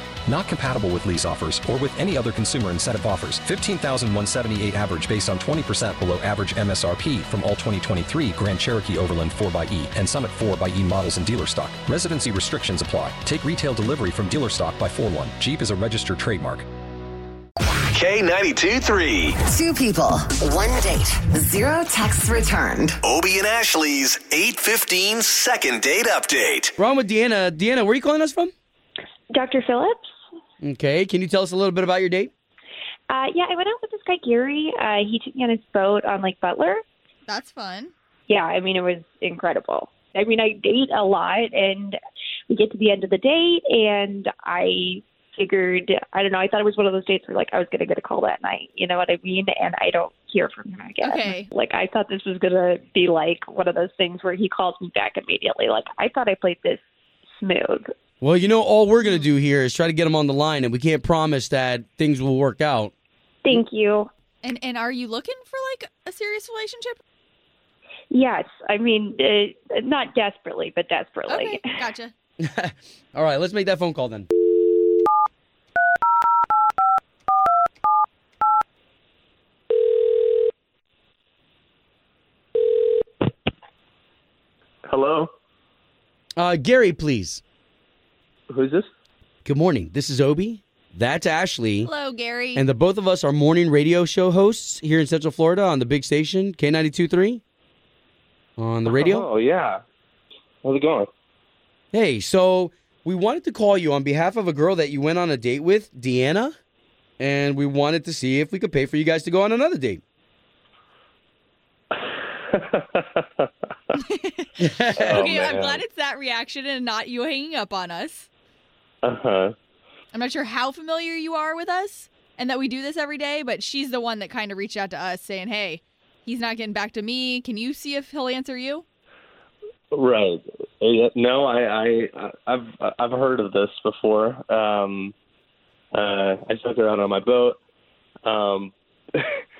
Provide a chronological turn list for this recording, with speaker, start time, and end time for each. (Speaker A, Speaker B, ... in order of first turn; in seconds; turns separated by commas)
Speaker A: 0.2-16.7, Speaker B: 17.9-19.4, Speaker C: 19.4-23.0, Speaker B: 23.0-26.7, Speaker D: 26.8-28.5, Speaker E: 29.3-30.1, Speaker D: 30.6-32.3, Speaker E: 33.1-36.8, Speaker F: 37.3-37.9, Speaker E: 38.3-42.0, Speaker E: 42.5-56.8, Speaker F: 51.0-51.5, Speaker E: 57.4-57.9, Speaker D: 58.2-62.9, Speaker E: 63.4-64.1, Speaker F: 64.4-67.0, Speaker E: 68.1-71.6, Speaker F: 71.3-72.1, Speaker D: 72.4-74.3, Speaker G: 84.8-85.3, Speaker D: 86.4-87.4, Speaker G: 88.5-88.9, Speaker D: 89.4-91.9, Speaker F: 91.8-92.6, Speaker D: 92.5-97.4, Speaker D: 98.6-99.2, Speaker G: 98.9-99.8, Speaker G: 100.6-101.1, Speaker D: 101.9-106.5, Speaker D: 107.2-110.0, Speaker G: 112.5-113.5, Speaker F: 113.9-118.3, Speaker D: 114.6-115.0, Speaker G: 115.0-115.8, Speaker G: 119.0-119.5, Speaker F: 120.1-128.8, Speaker G: 129.9-135.1, Speaker G: 135.9-137.6, Speaker G: 138.2-139.4